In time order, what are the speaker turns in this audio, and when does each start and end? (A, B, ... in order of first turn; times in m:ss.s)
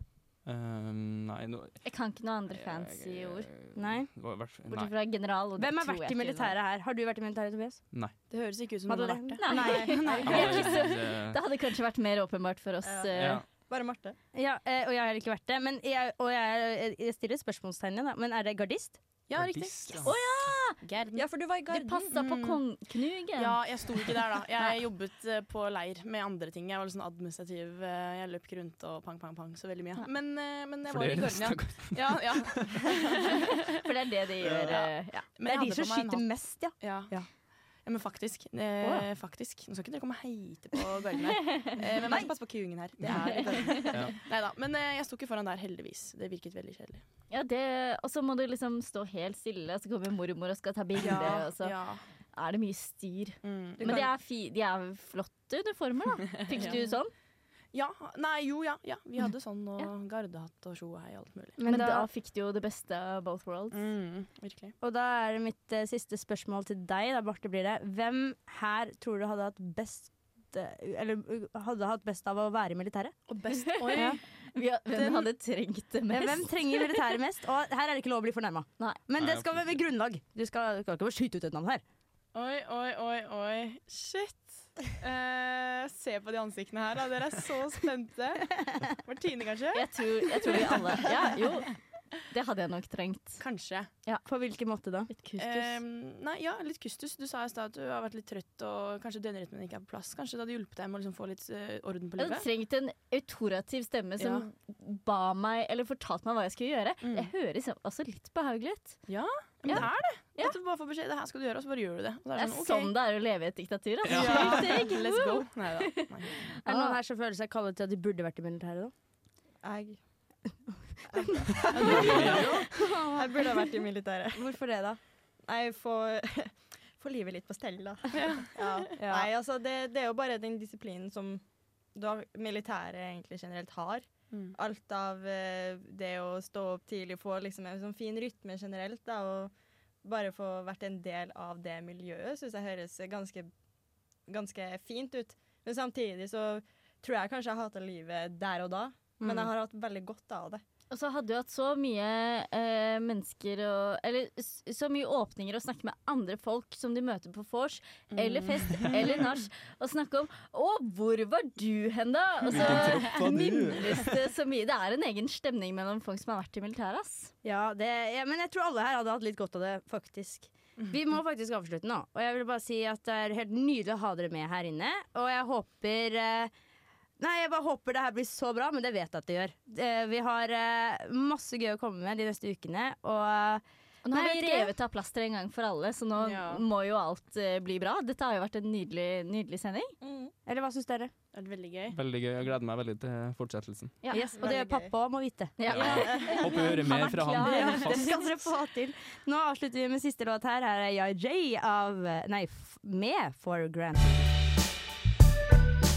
0:00.5-0:01.8 A
0:01.8-0:03.5 B
0:02.6-0:04.9 A
0:03.8-0:04.1 C
0:04.7-0:06.5 B
0:05.6-0:07.8 C
0:08.3-0:10.9 D
0:08.9-0:10.1 C
0:09.4-0:13.4 B
0:09.6-0:10.4 E
0:10.3-0:11.4 A
0:12.8-0:14.2 E
0:13.1-0:13.4 A
0:14.3-0:19.0 C
0:19.3-0:20.2 D
0:19.3-0:20.1 A
0:20.0-0:20.8 B
0:20.8-0:22.6 D
0:21.1-0:22.1 E
0:21.7-0:24.8 B
0:23.4-0:33.5 D
0:30.9-0:32.7 A
0:33.8-0:35.2 B
0:34.5-0:36.3 D
0:35.4-0:36.8 C
0:36.8-0:37.2 D
0:37.8-0:47.0 D
0:43.3-0:44.0 B
0:47.3-0:51.8 B
0:51.0-0:52.0 D
0:52.4-0:57.1 B
0:53.4-0:54.1 D
0:56.4-0:56.8 D
0:57.7-1:01.6 D
1:01.6-1:02.1 C
1:01.6-1:03.9 B
1:03.7-1:04.8 D
1:04.8-1:13.2 C
1:13.3-1:14.2 D
1:13.7-1:17.1 B
1:13.9-1:14.2 C
1:14.9-1:15.3 D
1:16.1-1:21.8 C
1:19.2-1:19.6 A
1:22.3-1:31.4 D
1:29.7-1:31.7 B
1:32.3-1:33.4 B
1:33.4-1:33.9 D
1:34.3-1:35.1 C
1:35.1-1:35.8 B
1:35.4-1:42.5 D
1:42.2-1:49.0 B
1:44.2-1:44.5 D
1:47.0-1:47.3 D
1:49.1-1:52.9 D
1:49.7-1:50.6 B
1:52.4-1:57.0 B
1:54.0-1:54.7 A
1:54.1-1:56.5 D
1:56.6-1:58.9 C
1:59.6-2:00.0 E
2:01.1-2:04.6 E
2:01.2-2:03.7 C
2:01.7-2:02.7 A
2:01.8-2:02.5 D
2:04.4-2:05.0 C
2:05.5-2:11.4 E
2:08.1-2:08.9 D
2:09.0-2:09.3 C
2:12.0-2:19.5 E
2:20.0-2:23.5 E
2:24.3-2:30.6 E
2:29.2-2:29.5 C
2:30.9-2:47.3 B
2:38.1-2:39.3 D
2:42.5-2:44.1 A
2:42.6-2:42.9 D
2:47.4-2:56.5 C
2:57.2-3:04.7 C
3:04.0-3:09.9 B
3:06.2-3:06.7 D
3:10.0-3:10.3 E
3:10.5-3:11.1 C
3:11.3-3:12.0 D
3:11.9-3:14.0 A
3:14.0-3:14.4 B
3:14.1-3:24.2 C
3:14.3-3:14.9 E
3:15.6-3:18.2 B
3:15.6-3:18.3 A
3:15.8-3:16.4 E